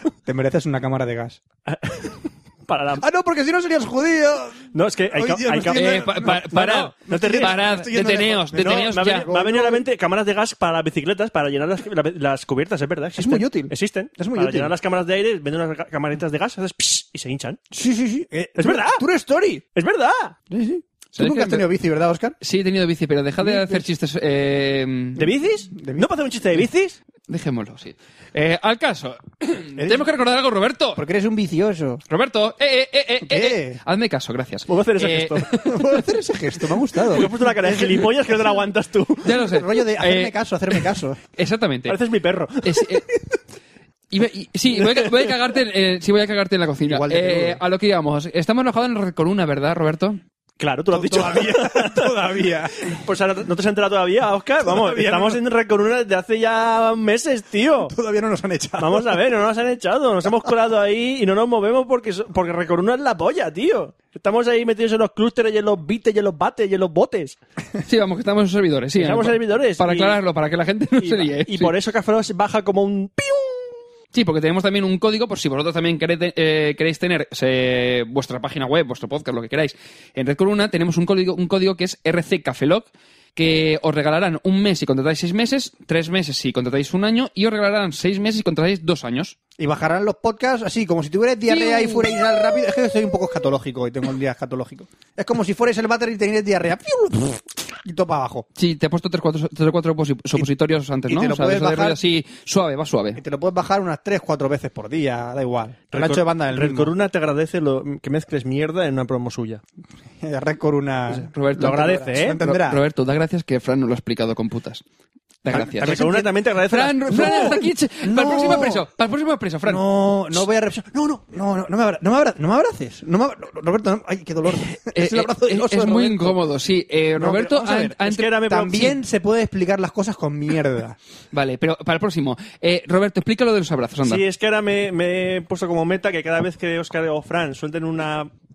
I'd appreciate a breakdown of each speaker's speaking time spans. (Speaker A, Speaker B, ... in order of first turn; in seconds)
Speaker A: 0.3-1.4, 3.0-9.9, 13.2-14.7, 17.7-19.6, 20.5-22.4, 25.8-26.1, 29.8-30.1, 31.0-32.0, 33.2-33.8, 35.6-38.3, 39.3-41.2, 46.9-47.6, 50.9-52.9, 54.6-55.4, 57.8-59.2, 89.6-98.5, 101.1-102.0, 103.2-106.9, 110.2-112.8, 115.5-116.3, 117.1-118.8, 119.7-126.4, 127.2-131.0
Speaker B: 1.7-3.0, 4.7-7.7, 8.6-17.6, 18.6-19.0, 19.8-20.4, 25.2-27.0, 34.7-35.5, 37.1-39.3, 41.9-43.2, 44.9-45.3, 50.6-57.9, 58.8-67.4, 69.0-70.2, 71.0-73.8, 105.9-109.6, 111.6-112.4, 115.5-117.6, 128.1-129.0, 134.0-138.3
Speaker C: 5.7-9.3, 21.1-21.7, 22.4-25.3, 27.3-31.0, 32.1-35.6, 39.2-40.3, 41.4-42.0, 42.6-43.0, 44.1-50.2, 67.8-71.8, 74.1-89.3, 91.5-92.2, 98.6-103.2, 111.1-114.8, 115.4-119.8, 124.8-128.3, 131.3-134.2